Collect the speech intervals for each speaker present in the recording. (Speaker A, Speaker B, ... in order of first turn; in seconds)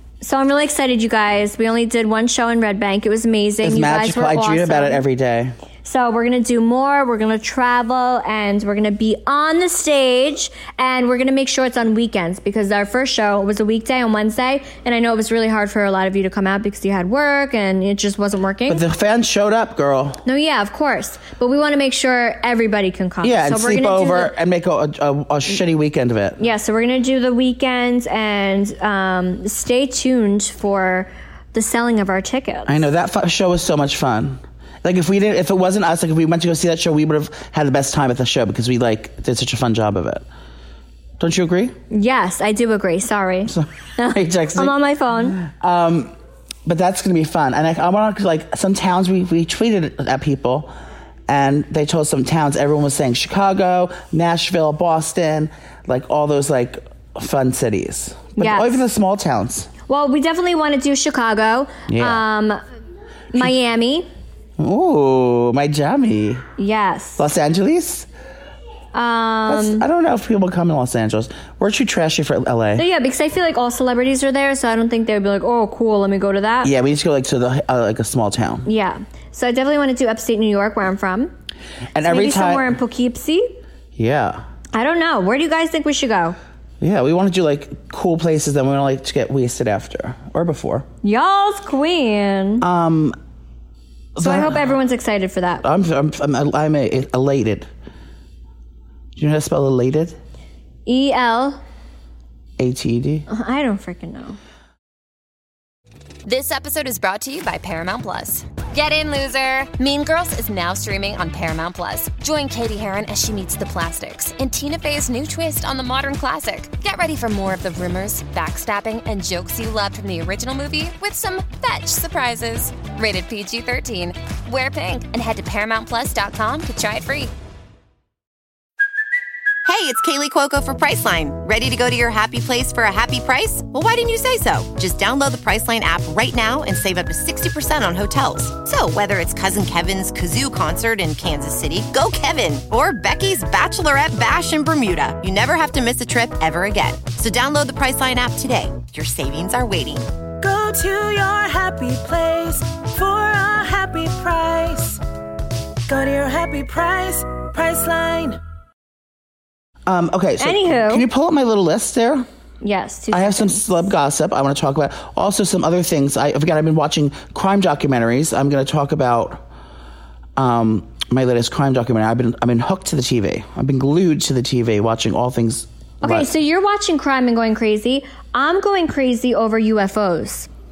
Speaker A: 0.2-5.0, 5.8-18.8, 20.2-24.3, 26.4-32.8, 41.9-45.4, 58.4-58.8, 59.9-62.6, 63.3-64.1, 66.6-67.2, 68.9-69.8, 72.8-76.7, 78.7-81.3, 82.0-83.6, 84.7-86.4, 91.0-92.7, 94.2-95.7, 100.9-101.6, 103.3-104.4, 160.4-161.1, 162.6-163.8, 176.0-180.5
Speaker B: 3.6-5.5, 18.7-20.2, 23.2-26.4, 32.7-40.2, 41.2-41.8, 43.5-44.7, 45.3-46.1, 46.6-50.7, 51.3-59.7, 61.9-62.2, 64.6-66.5, 67.2-68.1, 69.5-72.8, 76.6-78.7, 81.9-82.7, 84.0-84.4, 86.8-90.9, 92.6-93.2, 94.2-94.7, 95.6-97.7, 99.2-100.2, 102.6-103.3, 159.9-162.3, 163.1-169.4, 170.4-176.3
Speaker C: 106.2-127.3
Speaker D: 129.7-150.1
Speaker E: 150.4-155.0, 155.9-158.4